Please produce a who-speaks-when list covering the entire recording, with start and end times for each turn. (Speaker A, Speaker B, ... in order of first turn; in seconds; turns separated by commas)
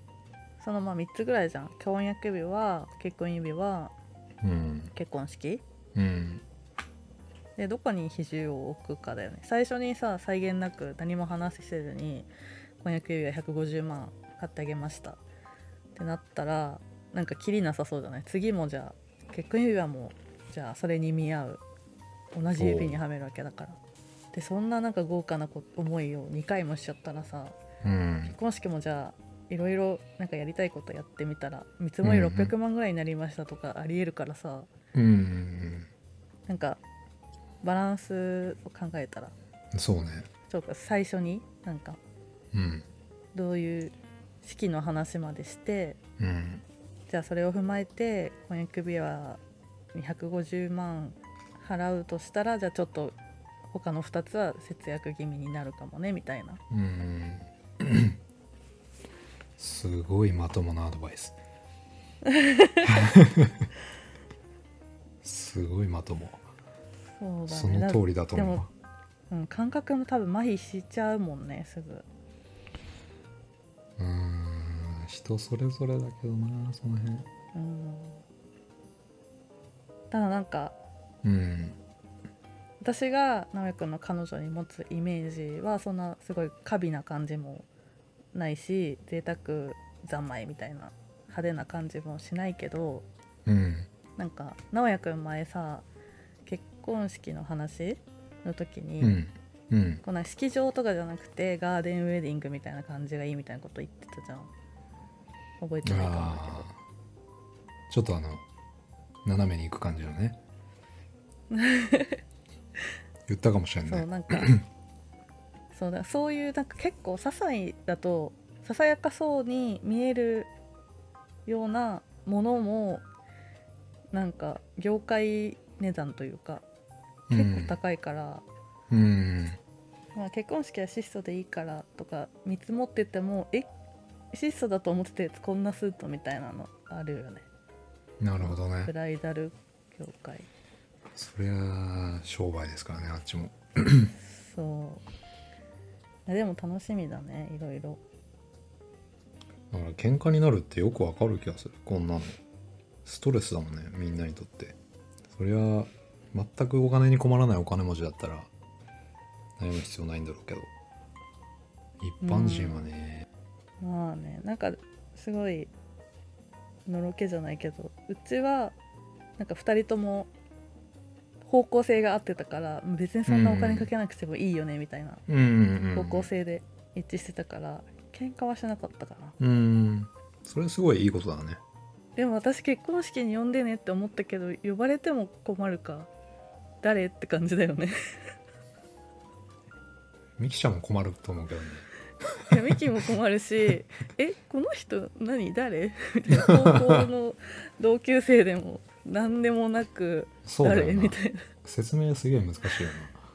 Speaker A: 0.6-3.9, Speaker B: 4.4-4.9, Speaker A: 4.9-5.6, Speaker B: 5.9-6.4, Speaker A: 7.6-12.3, Speaker A: 12.8-15.2, Speaker A: 15.9-21.6, Speaker A: 22.3-23.8, Speaker B: 22.6-23.0, Speaker A: 24.3-27.6, Speaker B: 27.8-28.4, Speaker A: 28.2-34.7, Speaker B: 32.0-32.5, Speaker B: 34.9-35.9, Speaker A: 36.5-36.8, Speaker A: 37.6-39.3, Speaker B: 39.7-40.3, Speaker A: 40.5-42.0, Speaker B: 42.5-42.9, Speaker A: 43.3-46.0, Speaker B: 46.2-46.6, Speaker A: 47.1-49.4, Speaker A: 49.9-53.1, Speaker A: 53.7-56.6, Speaker B: 56.7-58.2, Speaker B: 59.6-61.4, Speaker A: 62.2-62.9, Speaker B: 62.8-63.7, Speaker B: 65.2-66.4, Speaker A: 67.2-68.7, Speaker B: 67.5-68.7, Speaker A: 69.3-72.0, Speaker B: 74.0-77.3, Speaker A: 77.5-78.2, Speaker A: 80.1-80.8, Speaker B: 81.2-81.8, Speaker A: 82.8-87.7, Speaker A: 88.3-93.0, Speaker B: 93.5-93.9, Speaker A: 94.2-95.8, Speaker A: 96.5-99.2, Speaker B: 99.0-100.0, Speaker A: 100.0-104.5, Speaker A: 105.6-106.7, Speaker B: 105.8-106.8, Speaker B: 107.9-108.4, Speaker B: 109.2-110.4, Speaker A: 111.5-112.2, Speaker B: 113.3-114.6, Speaker A: 113.8-114.5, Speaker A: 115.7-120.5, Speaker A: 121.5-123.0, Speaker A: 124.1-126.6, Speaker B: 127.3-127.8, Speaker A: 127.3-128.4, Speaker B: 128.9-129.6, Speaker A: 130.1-133.7, Speaker A: 134.3-137.4, Speaker B: 138.2-138.9, Speaker A: 138.4-140.5, Speaker B: 141.1-144.1, Speaker A: 144.2-145.0, Speaker A: 146.2-148.0, Speaker B: 149.7-152.4, Speaker B: 153.0-154.8, Speaker B: 155.3-158.5, Speaker B: 159.6-160.7, Speaker B: 162.0-163.2, Speaker A: 162.2-162.9, Speaker A: 163.8-165.7, Speaker A: 166.8-168.8, Speaker A: 169.4-170.3, Speaker A: 171.4-175.2, Speaker B: 173.3-173.9, Speaker B: 175.3-176.3, Speaker A: 175.9-179.4, Speaker B: 179.4-181.6, Speaker A: 182.2-186.1, Speaker A: 186.8-187.9, Speaker B: 190.4-191.9, Speaker A: 192.5-201.5, Speaker B: 196.4-197.1, Speaker B: 200.4-203.2